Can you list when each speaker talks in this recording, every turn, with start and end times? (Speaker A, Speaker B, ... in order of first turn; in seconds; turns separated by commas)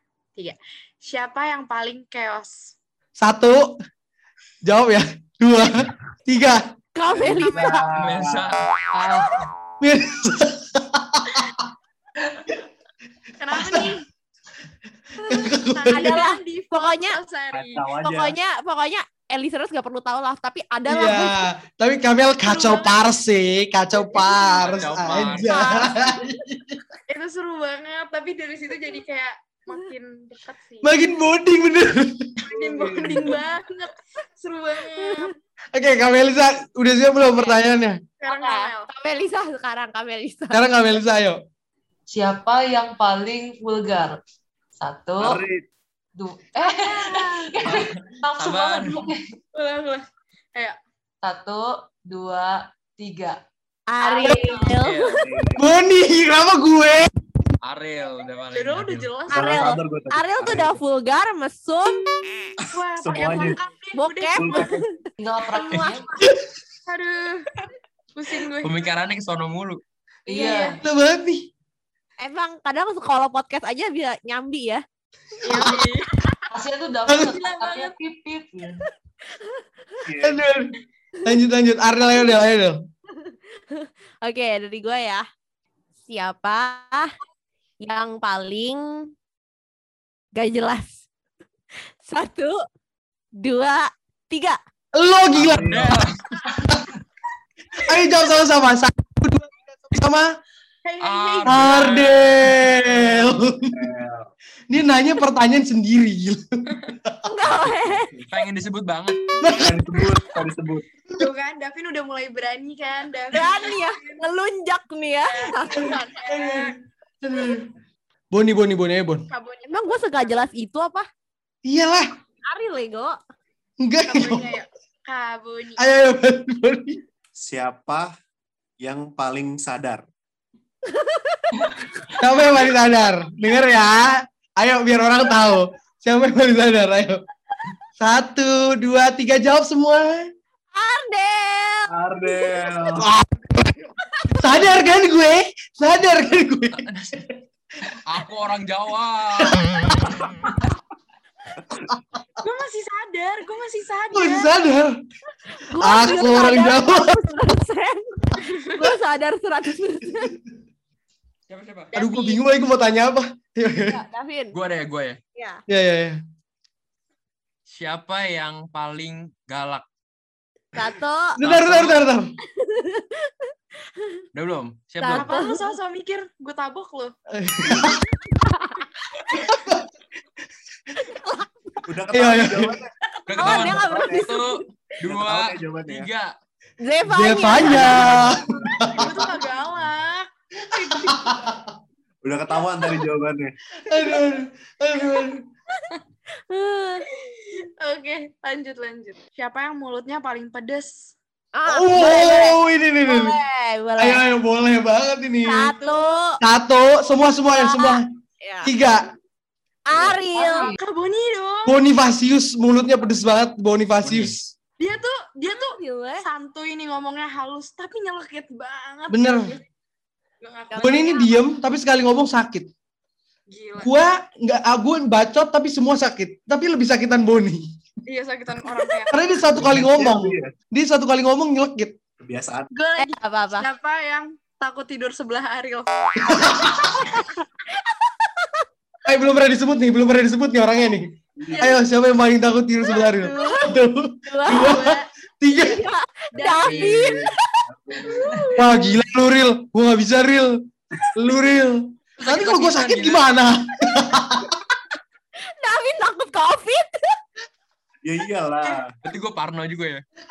Speaker A: 0.3-2.7, Speaker B: 3.2-3.7, Speaker B: 4.6-6.7, Speaker C: 7.0-7.8, Speaker D: 7.1-8.5, Speaker A: 7.2-7.8, Speaker E: 7.9-8.6, Speaker F: 8.9-9.4, Speaker B: 9.8-11.6, Speaker A: 13.4-14.1, Speaker B: 13.5-14.0, Speaker B: 15.2-16.2, Speaker A: 15.3-17.8, Speaker C: 15.9-17.2, Speaker D: 17.5-18.3, Speaker C: 18.0-21.5, Speaker B: 20.9-26.8, Speaker A: 22.4-22.9, Speaker A: 24.1-25.8, Speaker E: 24.8-25.5, Speaker C: 25.4-26.1, Speaker A: 27.1-31.0, Speaker B: 30.8-32.5, Speaker A: 32.5-35.3, Speaker D: 32.6-33.4, Speaker C: 35.0-35.3, Speaker B: 35.7-38.0, Speaker A: 38.2-38.9, Speaker C: 38.2-40.6, Speaker B: 40.5-41.4, Speaker F: 42.1-44.2, Speaker F: 44.8-45.4, Speaker D: 45.2-45.6, Speaker F: 46.1-49.2, Speaker A: 46.6-47.5, Speaker E: 48.4-49.0, Speaker A: 49.5-50.8, Speaker F: 51.2-53.4, Speaker C: 53.9-55.1, Speaker A: 54.0-54.7, Speaker F: 54.2-54.7, Speaker E: 54.7-55.2, Speaker D: 55.2-55.7, Speaker B: 55.5-57.1, Speaker E: 57.6-59.1, Speaker A: 58.5-59.8, Speaker D: 59.3-60.8, Speaker C: 59.3-62.5, Speaker D: 62.6-63.6, Speaker A: 62.7-64.8, Speaker C: 63.9-64.9, Speaker D: 64.3-64.8, Speaker F: 65.2-66.1, Speaker C: 65.5-65.9, Speaker A: 66.9-67.6, Speaker A: 68.1-68.8, Speaker E: 68.6-69.8, Speaker F: 70.3-70.8, Speaker A: 70.3-70.8, Speaker B: 70.8-71.5, Speaker C: 72.2-74.8, Speaker C: 75.4-75.7, Speaker A: 75.4-76.2, Speaker F: 76.5-78.8, Speaker B: 77.1-77.3, Speaker A: 77.2-77.9, Speaker D: 80.0-80.4, Speaker B: 80.2-80.7, Speaker B: 81.2-82.8, Speaker C: 83.2-85.2, Speaker C: 86.1-87.1, Speaker C: 87.8-89.1, Speaker C: 90.3-91.0, Speaker C: 92.0-92.6, Speaker C: 93.4-94.6, Speaker B: 95.0-96.0, Speaker D: 95.3-96.0, Speaker E: 95.6-96.1, Speaker B: 97.8-100.3, Speaker A: 100.8-102.1, Speaker E: 101.0-102.8, Speaker B: 101.5-103.8, Speaker D: 103.1-104.3, Speaker B: 104.7-107.2, Speaker C: 107.3-108.1, Speaker D: 107.6-108.3, Speaker E: 108.3-109.2, Speaker B: 109.4-109.8, Speaker D: 109.5-110.9, Speaker A: 111.1-114.2, Speaker C: 113.3-116.0, Speaker A: 115.3-116.8, Speaker B: 116.2-117.7, Speaker B: 118.3-119.3, Speaker A: 119.3-120.4, Speaker C: 119.7-121.1, Speaker B: 121.6-122.1, Speaker C: 122.5-123.2, Speaker B: 123.8-124.5, Speaker A: 124.1-125.8, Speaker B: 125.8-127.0, Speaker D: 127.3-128.1, Speaker D: 128.8-130.0, Speaker C: 130.9-131.5, Speaker B: 132.2-137.2, Speaker B: 138.0-140.2, Speaker C: 140.7-142.6, Speaker D: 141.9-143.1, Speaker B: 142.9-143.4, Speaker B: 144.4-146.9, Speaker E: 146.8-147.2, Speaker E: 148.1-150.3, Speaker A: 152.4-154.5, Speaker B: 154.1-154.9, Speaker C: 155.6-160.3, Speaker B: 155.8-157.2, Speaker A: 158.4-158.9, Speaker E: 161.5-161.9, Speaker A: 161.9-162.4, Speaker B: 161.9-164.0, Speaker C: 163.9-164.6, Speaker E: 164.5-165.2, Speaker C: 165.3-165.6, Speaker B: 165.7-166.2, Speaker E: 167.7-169.8, Speaker C: 170.8-171.4, Speaker B: 171.4-172.3, Speaker E: 171.4-172.0, Speaker C: 172.6-173.3, Speaker E: 174.3-175.3, Speaker C: 175.0-175.7, Speaker A: 175.1-177.1, Speaker B: 177.3-178.1, Speaker C: 178.4-179.3, Speaker B: 179.5-179.8, Speaker C: 181.0-181.5, Speaker D: 181.8-182.9, Speaker B: 182.1-182.8, Speaker E: 183.3-186.3, Speaker C: 183.3-184.6, Speaker D: 183.4-184.3, Speaker D: 185.0-186.1, Speaker C: 186.8-188.2, Speaker B: 187.0-189.1, Speaker D: 187.8-189.3, Speaker A: 188.7-191.5, Speaker B: 190.9-191.7, Speaker D: 192.2-193.5, Speaker B: 193.8-195.4, Speaker C: 196.5-197.0, Speaker A: 197.2-201.1, Speaker C: 201.6-204.2, Speaker B: 201.7-203.3, Speaker B: 204.0-205.7, Speaker C: 205.4-206.4, Speaker A: 205.7-206.1, Speaker B: 206.4-208.1, Speaker C: 207.5-208.7, Speaker B: 208.6-209.1, Speaker C: 209.9-210.7, Speaker F: 210.3-210.8, Speaker A: 210.3-211.8, Speaker B: 211.7-214.5, Speaker D: 214.1-214.3, Speaker A: 214.8-219.6, Speaker C: 215.5-216.2, Speaker B: 219.1-219.6, Speaker A: 220.4-221.4, Speaker B: 220.7-222.7, Speaker A: 223.5-223.9, Speaker B: 223.8-227.7, Speaker A: 228.0-229.2, Speaker B: 229.1-232.0, Speaker D: 229.5-230.5, Speaker D: 232.2-232.7, Speaker A: 232.7-237.2, Speaker C: 233.0-233.7, Speaker B: 236.2-237.0, Speaker C: 237.0-238.6, Speaker B: 239.0-245.8, Speaker D: 241.4-241.8, Speaker A: 241.5-241.7, Speaker A: 242.9-243.4, Speaker C: 243.0-244.8, Speaker A: 244.4-245.1, Speaker C: 245.5-248.6, Speaker A: 246.3-247.2, Speaker D: 246.4-248.8, Speaker B: 248.5-254.5, Speaker E: 252.2-253.2, Speaker C: 255.6-256.9, Speaker D: 258.0-258.9, Speaker E: 259.0-260.0